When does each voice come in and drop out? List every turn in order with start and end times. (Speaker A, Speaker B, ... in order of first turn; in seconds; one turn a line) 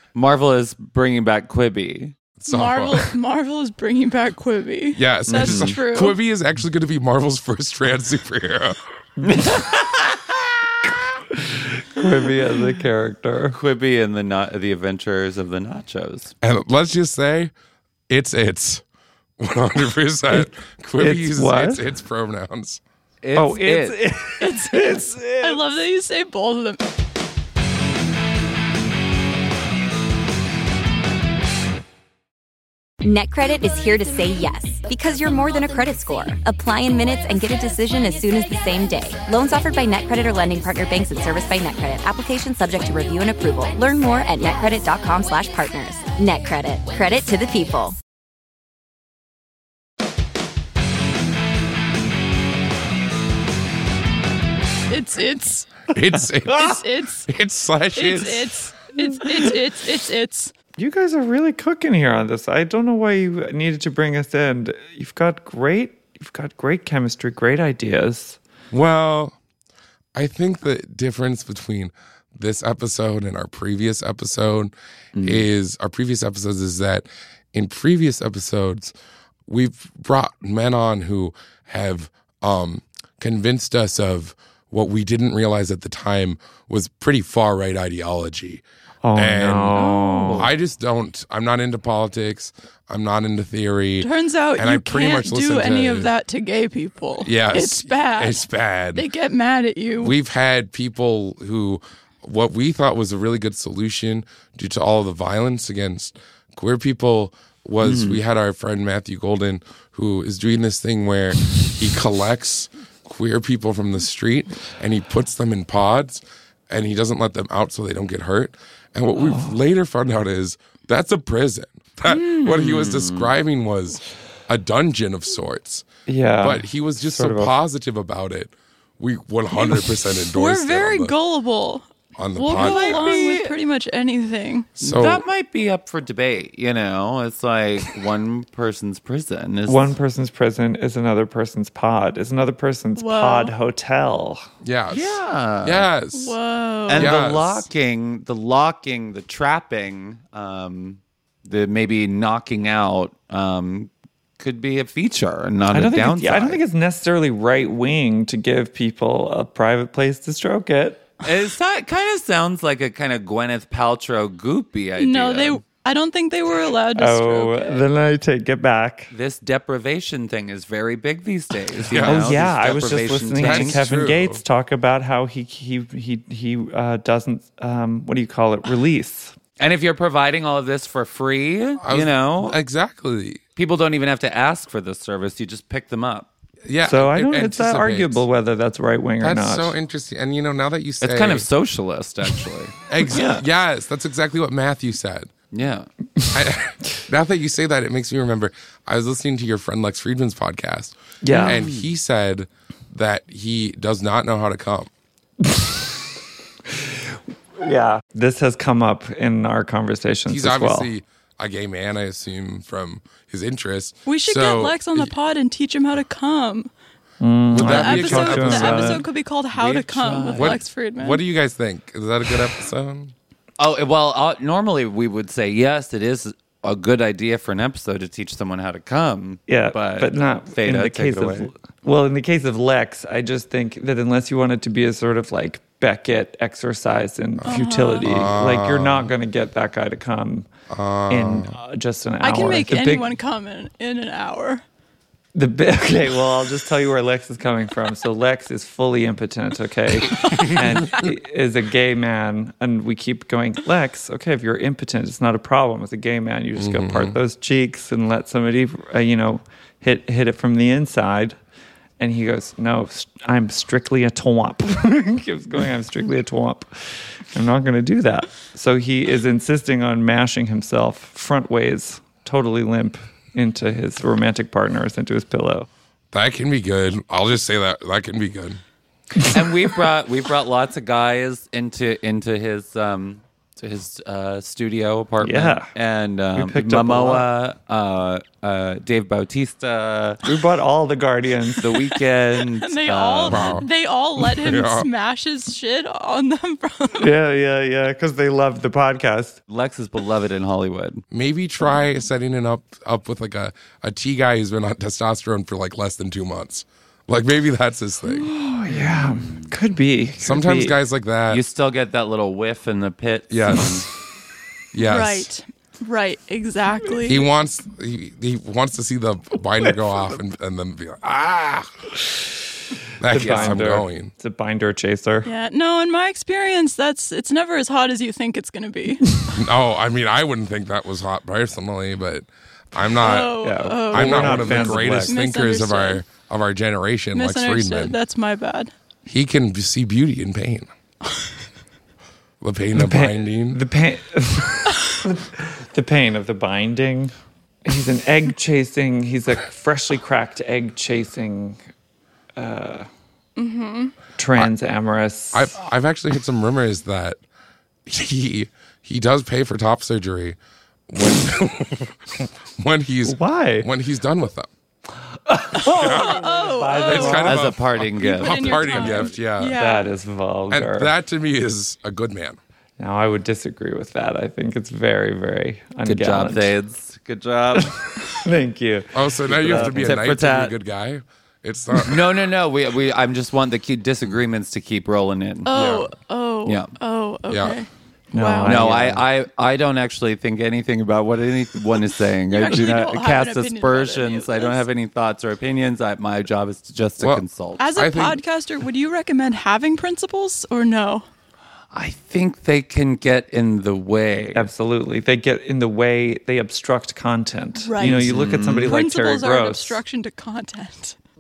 Speaker A: 0.1-2.1
Speaker B: 2.4-3.1
Speaker C: 2.5-6.2
Speaker B: 4.9-8.8
Speaker A: 5.3-5.8
Speaker D: 9.2-9.6
Speaker D: 11.4-13.6
Speaker A: 13.5-16.3
Speaker B: 16.4-17.5
Speaker B: 18.1-18.8
Speaker B: 19.4-22.8
Speaker D: 21.0-21.8
Speaker A: 23.2-24.0
Speaker D: 23.4-25.6
Speaker C: 24.4-26.8
Speaker E: 33.0-48.0
Speaker C: 54.9-55.8
Speaker B: 55.9-58.5
Speaker C: 56.5-57.3
Speaker C: 58.0-60.5
Speaker D: 60.8-68.4
Speaker B: 68.7-69.3
Speaker B: 70.1-78.9
Speaker A: 75.1-75.4
Speaker B: 79.5-88.6
Speaker D: 89.0-90.5
Speaker B: 89.2-96.1
Speaker C: 89.7-90.5
Speaker C: 94.0-100.1
Speaker B: 97.2-99.0
Speaker B: 100.0-125.8
Speaker A: 107.8-108.2
Speaker D: 119.2-119.5
Speaker A: 122.3-123.3
Speaker D: 126.1-127.5
Speaker B: 126.4-131.1
Speaker C: 129.5-134.7
Speaker B: 132.2-133.1
Speaker A: 132.5-133.5
Speaker B: 134.8-135.2
Speaker A: 134.8-139.9
Speaker D: 139.7-144.4
Speaker C: 142.9-143.5
Speaker B: 144.6-146.4
Speaker A: 144.9-145.9
Speaker C: 146.1-147.1
Speaker A: 146.9-156.6
Speaker B: 146.9-147.7
Speaker D: 155.7-161.1
Speaker A: 161.2-165.6
Speaker C: 165.0-167.8
Speaker D: 166.9-169.1
Speaker A: 169.1-173.8
Speaker B: 171.8-172.7
Speaker D: 172.0-179.3
Speaker B: 173.4-174.4
Speaker A: 179.6-182.6
Speaker B: 181.8-183.4
Speaker A: 183.6-186.3
Speaker B: 186.7-188.2
Speaker D: 186.8-189.8
Speaker B: 189.2-191.5
Speaker A: 191.0-192.7
Speaker B: 192.9-195.3
Speaker D: 193.0-193.4
Speaker A: 195.5-195.9
Speaker B: 196.3-204.9
Speaker D: 201.2-201.7
Speaker A: 201.3-201.9
Speaker D: 207.6-210.9
Speaker B: 210.3-215.1
Speaker C: 214.1-216.7
Speaker D: 217.2-219.1
Speaker B: 217.5-219.0
Speaker C: 217.6-221.2
Speaker A: 219.5-220.6
Speaker B: 220.3-223.1
Speaker A: 223.6-231.5
Speaker D: 229.5-240.5
Speaker B: 237.4-239.1
Speaker C: 237.4-238.1
Speaker B: 240.7-241.6
Speaker D: 241.1-243.1
Speaker C: 242.2-244.6
Speaker D: 245.3-261.4
Speaker C: 250.3-251.0
Speaker B: 256.6-257.2
Speaker D: 262.0-266.7
Speaker D: 267.3-275.7
Speaker B: 276.1-278.6
Speaker A: 279.2-290.2
Speaker D: 285.2-285.7
Speaker D: 286.3-287.3
Speaker D: 290.2-291.7
Speaker A: 291.6-293.6
Speaker C: 292.3-297.1
Speaker B: 293.3-293.7
Speaker B: 294.2-294.9
Speaker D: 297.0-299.4
Speaker A: 299.5-301.0
Speaker B: 301.1-308.3
Speaker D: 308.1-310.8
Speaker A: 308.7-309.5
Speaker B: 310.2-311.4
Speaker A: 311.3-313.8
Speaker B: 313.3-313.9
Speaker B: 314.7-315.3
Speaker C: 314.8-317.2
Speaker B: 317.1-321.7
Speaker B: 323.0-324.1
Speaker D: 323.1-325.3
Speaker A: 323.1-323.6
Speaker C: 325.2-329.2
Speaker B: 329.3-333.4
Speaker C: 333.0-336.0
Speaker D: 333.4-335.2
Speaker B: 333.9-338.0
Speaker C: 337.1-338.7
Speaker B: 339.1-340.7
Speaker B: 342.4-343.6
Speaker D: 342.7-347.1
Speaker D: 347.6-351.6
Speaker D: 352.4-352.9
Speaker C: 353.4-353.9
Speaker D: 354.2-355.5
Speaker B: 355.3-357.2
Speaker B: 357.9-360.4
Speaker B: 360.9-364.5
Speaker D: 363.0-363.7
Speaker D: 365.3-367.5
Speaker B: 365.6-369.6
Speaker C: 365.8-367.3
Speaker A: 367.2-369.1
Speaker C: 368.0-369.9
Speaker D: 369.5-370.9
Speaker B: 370.5-372.4
Speaker D: 372.8-376.5
Speaker A: 375.8-377.7
Speaker D: 378.0-380.0
Speaker B: 378.9-382.0
Speaker A: 379.4-380.5
Speaker A: 381.8-385.5
Speaker C: 385.4-388.6
Speaker B: 385.5-385.9
Speaker A: 386.4-386.7
Speaker B: 387.3-387.6
Speaker D: 388.1-389.1
Speaker A: 388.4-397.6
Speaker C: 392.3-394.6
Speaker B: 397.0-398.2
Speaker C: 397.6-401.1
Speaker A: 401.7-404.4
Speaker D: 404.3-409.8
Speaker C: 407.6-411.0
Speaker A: 407.8-408.7